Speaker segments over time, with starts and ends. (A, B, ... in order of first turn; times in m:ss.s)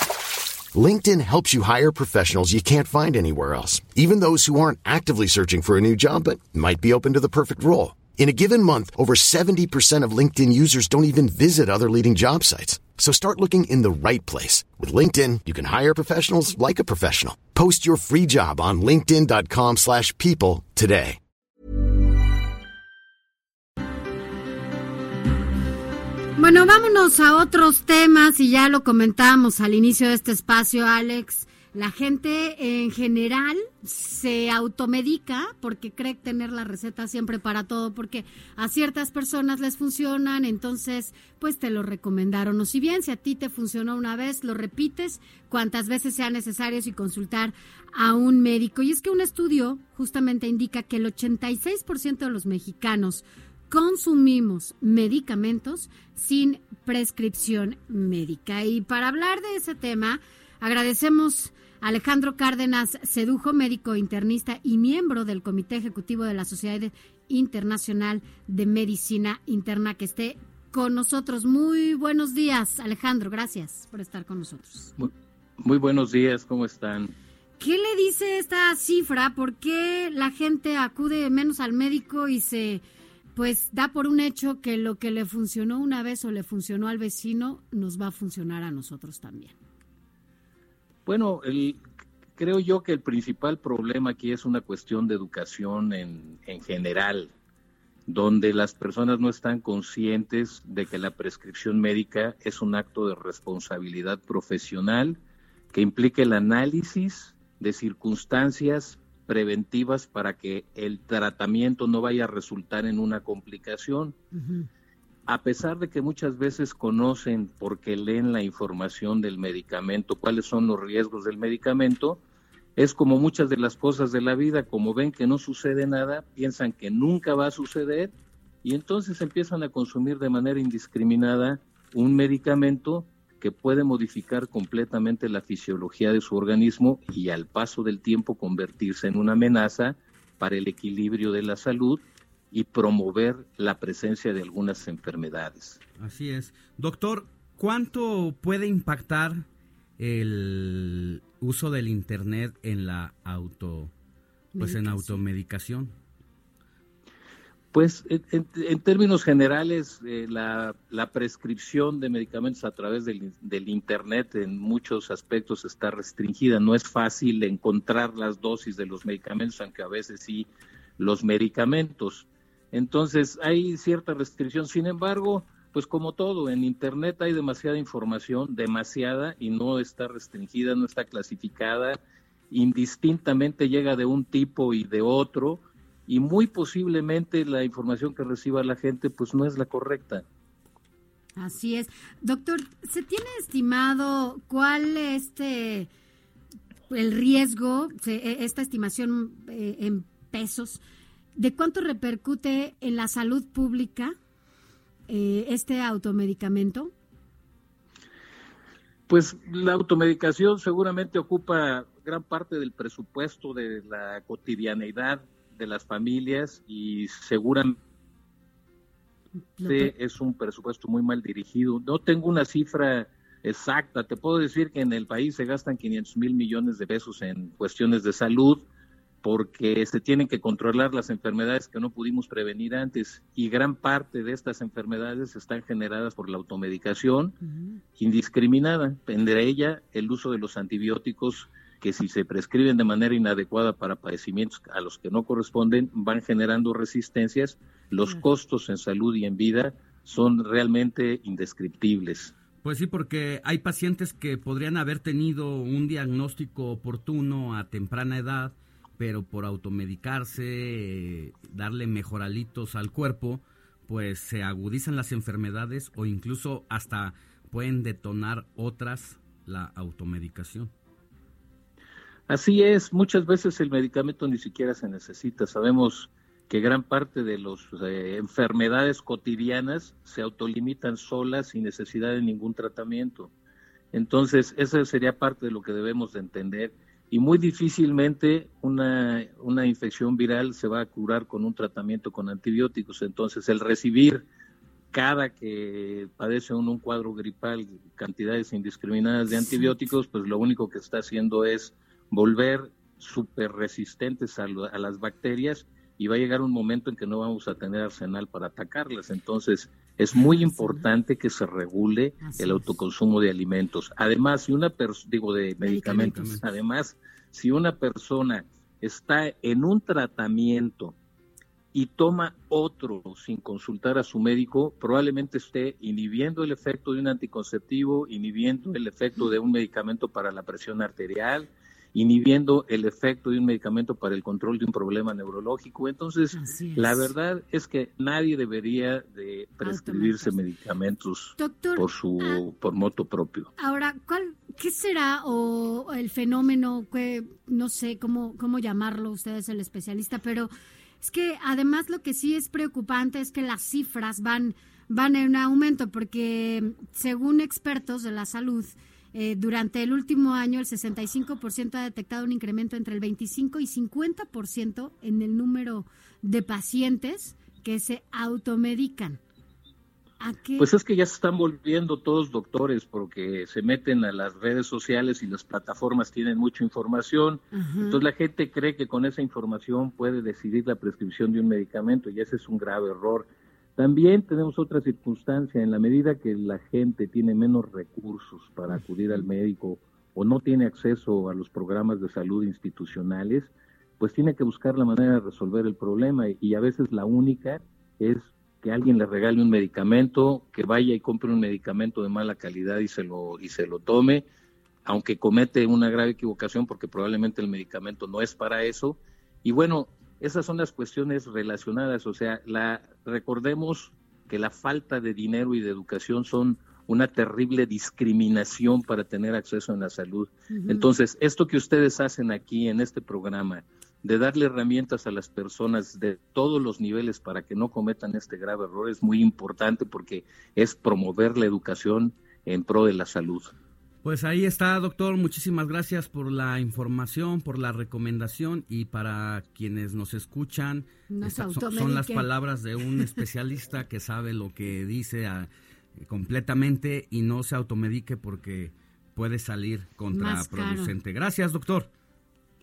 0:00.7-0:21.2 A
0:26.4-1:14.9 B
1:15.0-1:17.1 C
1:17.6-1:22.8 B
1:23.4-1:29.6 B
1:31.0-1:31.8 C
1:32.4-1:37.3 C
1:38.1-1:45.2 C
1:45.7-1:54.2 C
1:54.3-1:54.7 B
1:55.3-2:02.2 C
2:02.8-2:25.8 C
2:26.0-2:29.4 D
2:30.0-2:33.9 D
2:34.5-2:35.2 B
2:34.6-2:35.9 D
2:37.7-3:02.0 C
3:02.5-3:10.2 C
3:11.4-3:15.9 B
3:16.9-3:20.8 B
3:21.4-3:24.1 B
3:25.1-3:26.9 B
3:29.1-3:37.8 C
3:39.6-3:39.9 B
3:39.6-3:48.6 C
3:49.2-3:57.4 C
3:57.4-3:57.8 B
3:58.0-4:12.3 C
4:08.0-4:08.3 B
4:12.6-4:30.7 D
4:32.3-4:43.3 C
4:43.9-4:54.2 C
4:54.9-5:21.0 C
4:59.3-4:59.7 B
5:10.1-5:10.8 B
5:12.2-5:12.8 B
5:15.6-5:16.4 B
5:16.0-5:16.4 D
5:21.7-5:43.5 C
5:36.3-5:37.1 B
5:39.6-5:40.4 B
5:41.4-5:42.4 B
5:43.6-5:50.5 B
5:51.0-6:09.2 B
6:10.2-6:10.7 B
6:10.6-6:44.3 C
6:17.5-6:18.0 B
6:44.8-7:13.5 C
7:00.5-7:00.9 B
7:14.0-7:31.9 D
7:21.1-7:22.3 B
7:30.1-7:30.9 B